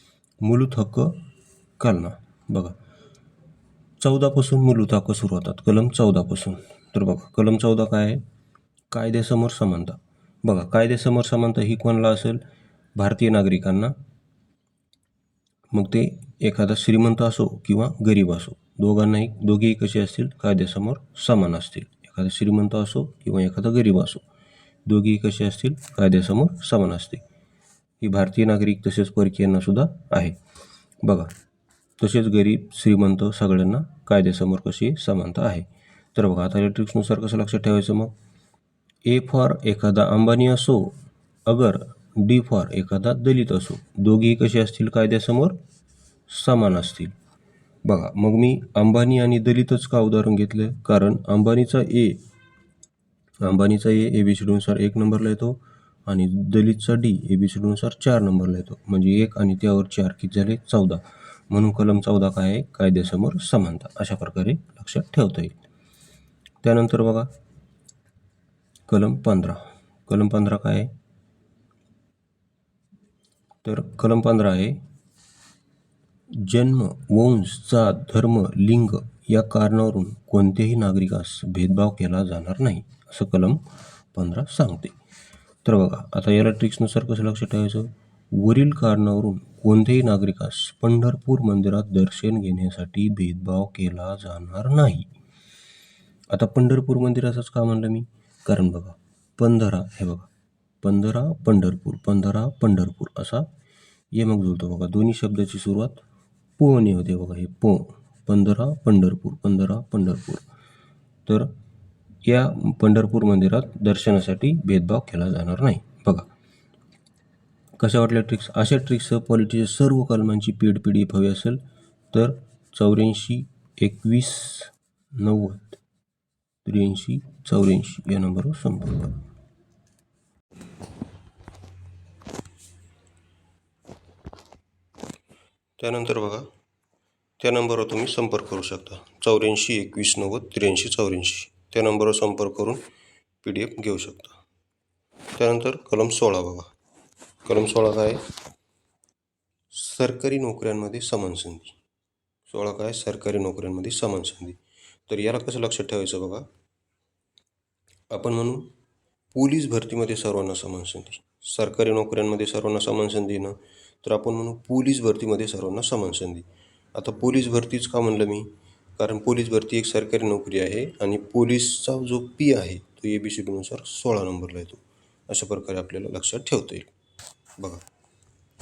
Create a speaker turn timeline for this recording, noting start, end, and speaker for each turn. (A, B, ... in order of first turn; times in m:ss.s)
0:00.4-0:01.2 A
0:01.8-0:02.8 A
0:04.0-0:08.2 A
0:08.9-0:12.4 A
0:13.0-0:14.0 A
0:15.7-0:24.2 A
0:24.9-0:27.2 A
0:28.0-0:30.4 A
0:31.0-0:31.3 A
0:32.0-0:38.1 A
0:39.1-0:45.6 A
0:46.3-0:47.1 A
0:47.8-0:52.2 A
0:53.4-1:05.6 A
1:06.6-1:07.3 A
1:08.9-1:10.9 A
1:13.6-1:14.8 A
1:16.3-1:23.6 A
1:24.1-1:25.0 A
1:25.6-1:35.1 A
1:36.3-1:40.3 A
1:40.8-1:43.5 A
1:44.1-1:46.0 A
1:46.6-1:50.5 A
1:51.3-1:51.5 A
1:52.2-1:56.3 A
1:57.8-2:01.6 A
2:02.1-2:05.8 A
2:06.6-2:09.2 A
2:15.8-2:16.5 A
2:17.4-2:22.8 A
2:23.4-2:24.4 A
2:25.4-2:26.7 A
2:27.4-2:28.2 A
2:29.7-2:31.8 A
2:32.5-2:36.5 A
2:38.1-2:38.7 A
2:39.3-2:56.9 A
2:57.6-2:57.8 A